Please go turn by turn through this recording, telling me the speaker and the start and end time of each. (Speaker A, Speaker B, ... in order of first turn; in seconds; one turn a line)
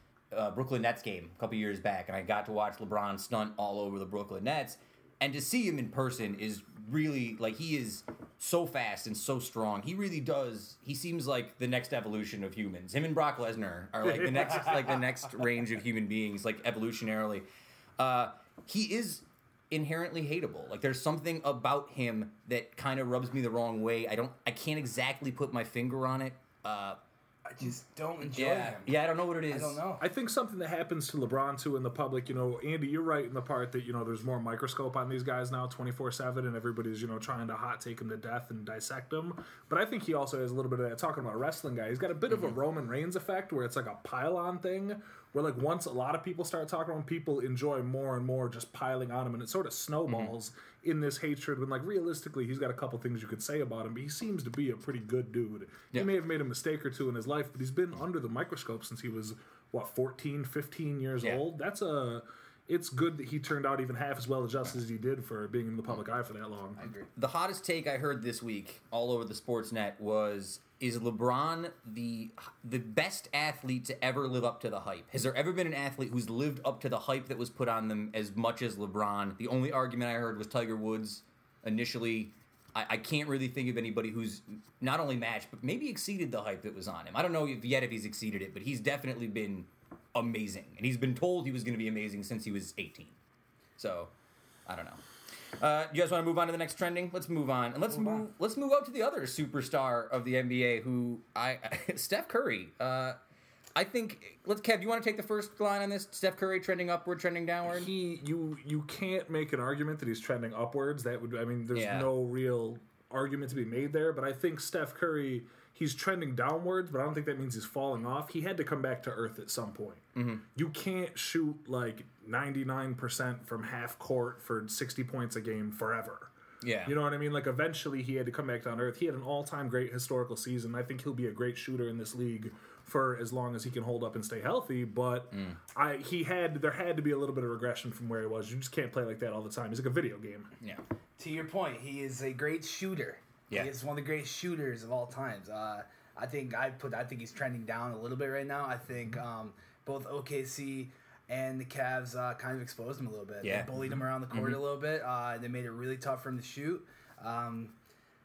Speaker A: 0.3-17.5
Speaker B: 14.0-14.8
Speaker A: 18.0-27.0
Speaker C: 27.5-30.1
Speaker A: 28.3-29.8
Speaker B: 30.0-66.9
Speaker A: 50.1-50.3
Speaker C: 66.8-67.1
Speaker A: 67.2-93.2
Speaker A: 93.8-94.1
Speaker A: 94.7-95.0
Speaker A: 95.6-103.2
Speaker A: 103.8-107.9
Speaker B: 107.7-126.3
Speaker A: 111.7-112.1
Speaker A: 120.2-120.4
Speaker A: 126.6-126.9
Speaker B: 126.8-140.5
Speaker A: 135.3-135.6
Speaker C: 141.2-157.7
Speaker A: 153.4-153.7
Speaker A: 154.3-154.6